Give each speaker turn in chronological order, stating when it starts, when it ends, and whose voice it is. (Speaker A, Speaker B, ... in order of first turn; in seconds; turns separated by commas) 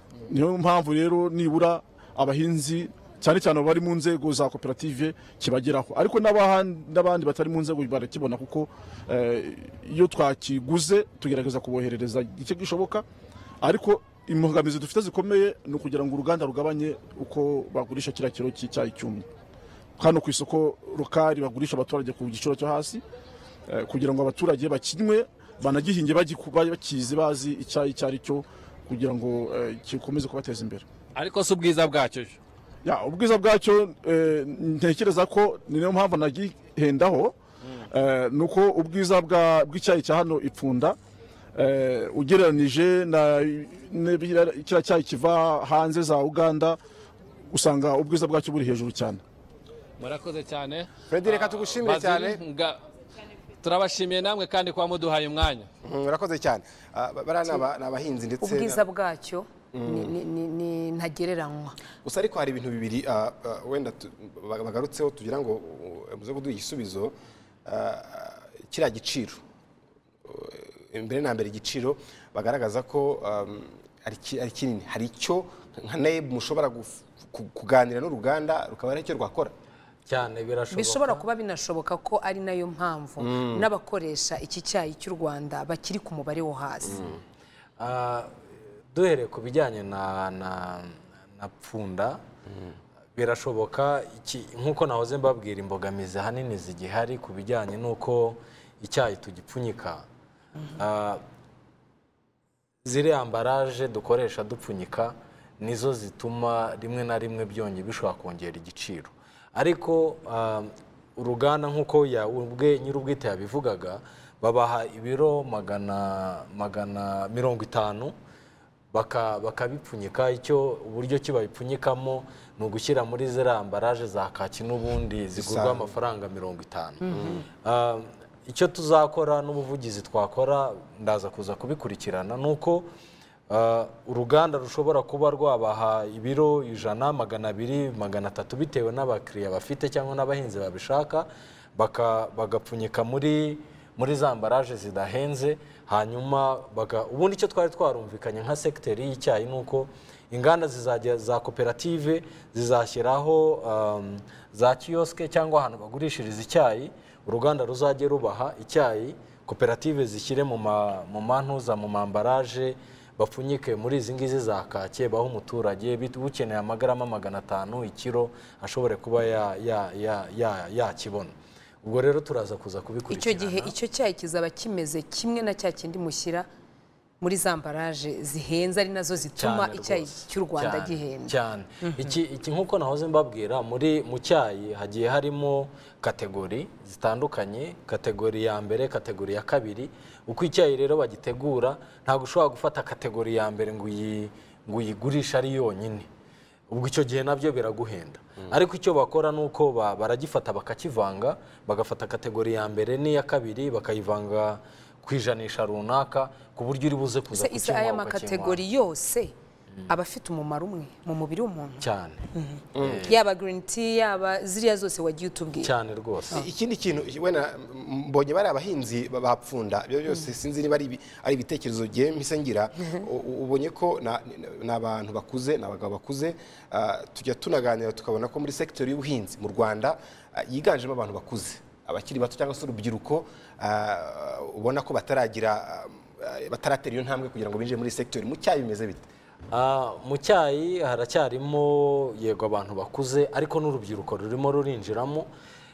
Speaker A: 0.3-13.1, Speaker A: 13.6-19.3, Speaker A: 20.0-23.0, Speaker A: 23.7-30.9, Speaker B: 31.1-32.4, Speaker A: 32.8-37.4, Speaker A: 37.9-41.0, Speaker A: 41.5-46.8, Speaker A: 47.5-49.2, Speaker B: 50.0-52.8, Speaker C: 51.1-52.4, Speaker B: 53.6-55.7, Speaker C: 55.8-58.8, Speaker D: 58.4-61.8, Speaker C: 59.7-60.1, Speaker C: 62.0-67.1, Speaker C: 67.7-69.4, Speaker C: 70.3-79.5, Speaker E: 80.1-81.2, Speaker D: 80.7-87.0, Speaker C: 83.2-83.7, Speaker C: 86.9-87.2, Speaker E: 87.8-88.3, Speaker E: 88.9-92.2, Speaker E: 93.2-100.1, Speaker E: 100.8-101.2, Speaker E: 102.8-118.1, Speaker E: 118.9-127.0, Speaker C: 125.3-125.9, Speaker D: 127.0-127.4, Speaker C: 127.1-127.5, Speaker E: 127.6-132.9, Speaker E: 133.5-173.8, Speaker D: 173.1-176.5, Speaker D: 177.2-182.1, Speaker E: 179.4-196.1, Speaker E: 196.7-208.6, Speaker D: 207.3-209.3, Speaker D: 209.9-215.7, Speaker E: 211.8-212.2, Speaker C: 212.8-213.1, Speaker E: 212.8-213.2, Speaker E: 215.6-216.4, Speaker C: 216.3-239.1, Speaker E: 239.5-245.3